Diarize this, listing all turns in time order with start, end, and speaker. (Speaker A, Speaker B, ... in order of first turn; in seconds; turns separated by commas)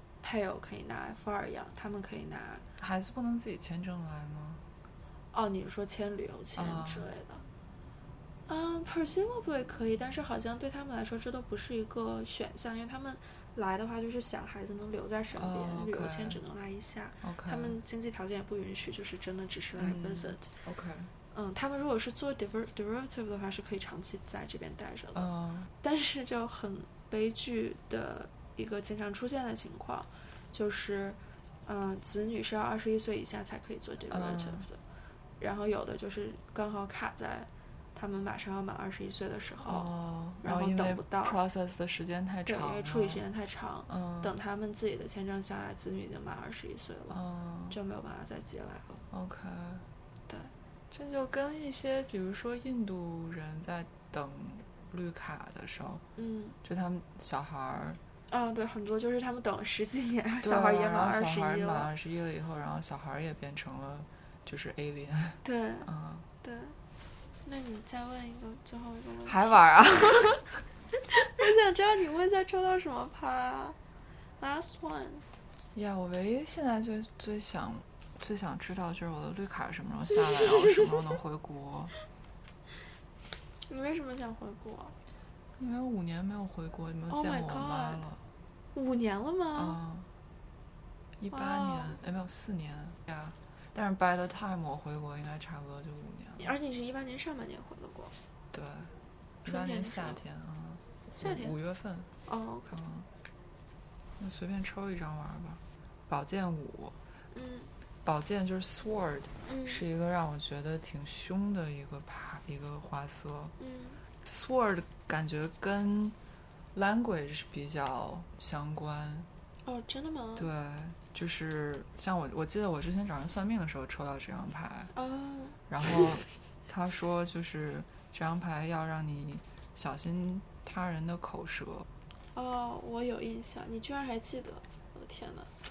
Speaker A: 0.2-2.6, Speaker B: 2.8-4.6, Speaker A: 5.3-7.4, Speaker B: 6.5-7.1, Speaker A: 8.5-20.5, Speaker B: 15.3-16.4, Speaker B: 17.2-17.8, Speaker B: 19.8-21.1, Speaker A: 21.3-25.3, Speaker B: 25.1-25.7, Speaker A: 25.8-34.8, Speaker B: 34.1-34.6, Speaker A: 35.4-39.9, Speaker B: 39.6-43.2, Speaker A: 40.4-41.4, Speaker A: 42.5-47.2, Speaker B: 43.9-44.3, Speaker B: 47.1-47.8, Speaker A: 47.7-49.0, Speaker B: 49.1-49.9, Speaker A: 50.3-50.5, Speaker B: 50.9-56.0, Speaker A: 56.2-56.6, Speaker B: 56.6-58.0, Speaker A: 58.3-61.9, Speaker B: 60.4-66.2, Speaker A: 65.4-65.9, Speaker A: 66.4-66.8, Speaker A: 67.4-70.3, Speaker B: 69.2-70.6, Speaker A: 71.0-73.8, Speaker A: 74.4-75.2, Speaker B: 75.7-81.9, Speaker A: 80.1-80.9, Speaker A: 83.7-84.9, Speaker B: 85.6-88.2, Speaker A: 87.1-88.0, Speaker A: 88.7-89.8, Speaker B: 89.5-90.1, Speaker B: 91.2-96.5, Speaker A: 91.3-92.0, Speaker A: 96.4-98.1, Speaker B: 98.5-98.9, Speaker A: 99.4-100.2, Speaker B: 99.4-102.1, Speaker A: 101.2-101.5, Speaker A: 102.2-102.8, Speaker B: 102.7-103.1, Speaker B: 104.2-107.0, Speaker A: 107.3-107.7, Speaker B: 108.0-113.5, Speaker A: 109.4-109.8, Speaker A: 113.6-114.0, Speaker B: 114.2-116.2, Speaker B: 116.7-119.3, Speaker A: 119.6-120.5, Speaker B: 120.4-124.9, Speaker A: 124.9-126.1, Speaker B: 125.7-131.9, Speaker A: 132.3-135.5